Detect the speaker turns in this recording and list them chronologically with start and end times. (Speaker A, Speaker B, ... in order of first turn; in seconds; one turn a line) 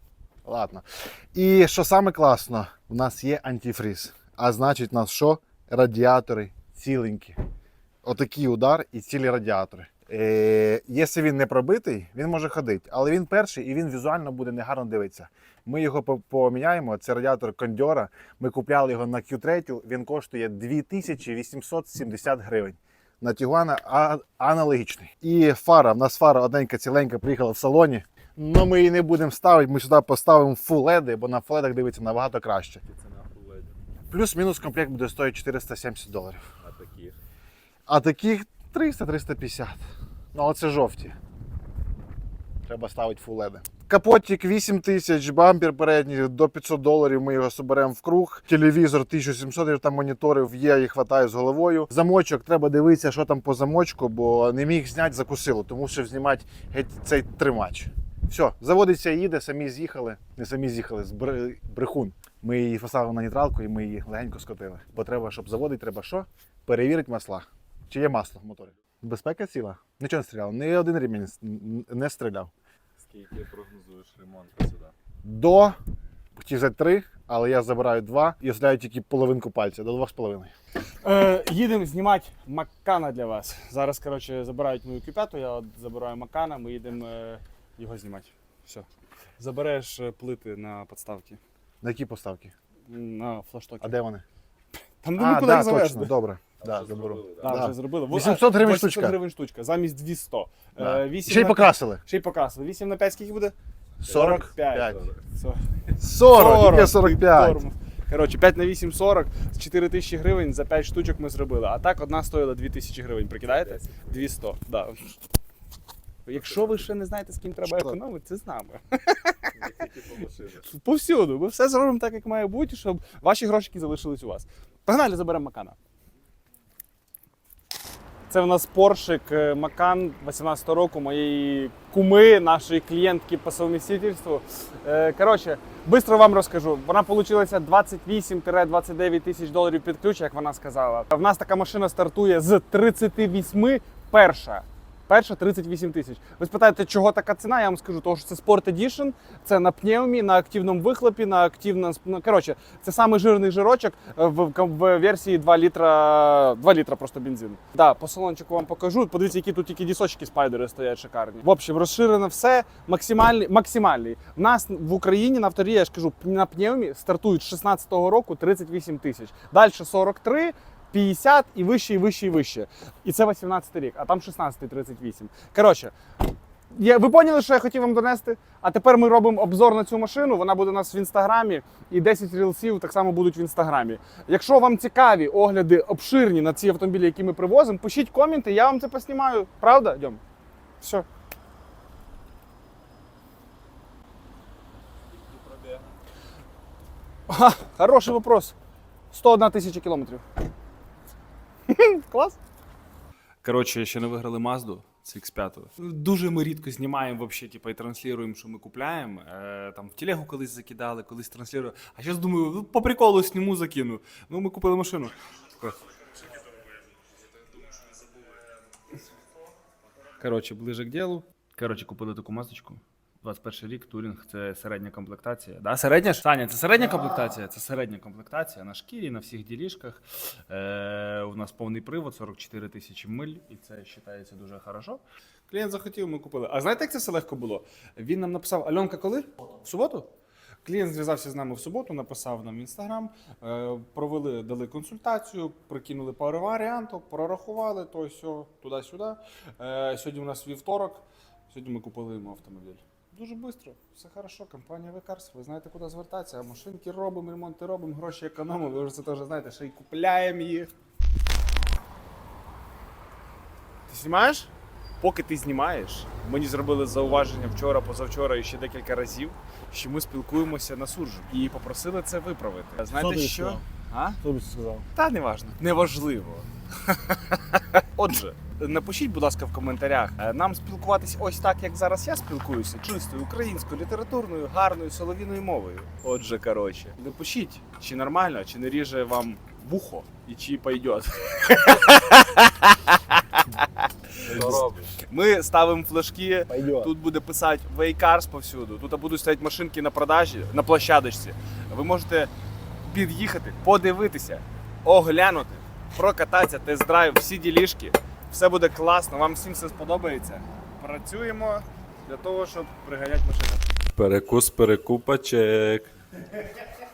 Speaker A: 0.4-7.4
Speaker A: 8.0-32.8
Speaker B: 32.9-33.8
Speaker A: 34.1-36.4
Speaker B: 36.6-37.1
Speaker A: 37.9-39.8
Speaker A: 40.3-41.1
Speaker A: 42.6-72.5
Speaker B: 73.0-74.9
Speaker A: 75.2-75.8
Speaker A: 76.3-80.5
Speaker C: 81.0-88.8
Speaker C: 89.4-91.4
Speaker A: 91.8-92.5
Speaker C: 92.9-93.9
Speaker A: 93.8-94.2
Speaker C: 95.0-96.1
Speaker A: 95.2-99.2
Speaker B: 96.6-97.6
Speaker C: 97.4-115.2
Speaker A: 100.8-102.0
Speaker A: 104.0-105.0
Speaker A: 106.0-107.6
Speaker B: 113.5-114.1
Speaker C: 116.2-119.5
Speaker A: 117.6-118.0
Speaker B: 119.5-120.6
Speaker C: 120.5-125.8
Speaker C: 128.3-175.9
Speaker C: 176.7-190.2
Speaker C: 190.8-191.1
Speaker B: 195.2-195.8
Speaker C: 197.3-198.5
Speaker C: 199.1-200.2
Speaker C: 201.7-202.4
Speaker C: 203.4-215.9
Speaker C: 220.2-240.1
Speaker C: 240.6-260.7
Speaker C: 263.9-274.2
Speaker A: 272.9-273.6
Speaker A: 274.2-274.9
Speaker C: 274.9-302.3
Speaker B: 294.2-294.9
Speaker A: 294.3-294.7
Speaker A: 296.5-296.9
Speaker C: 302.8-313.6
Speaker B: 313.9-315.9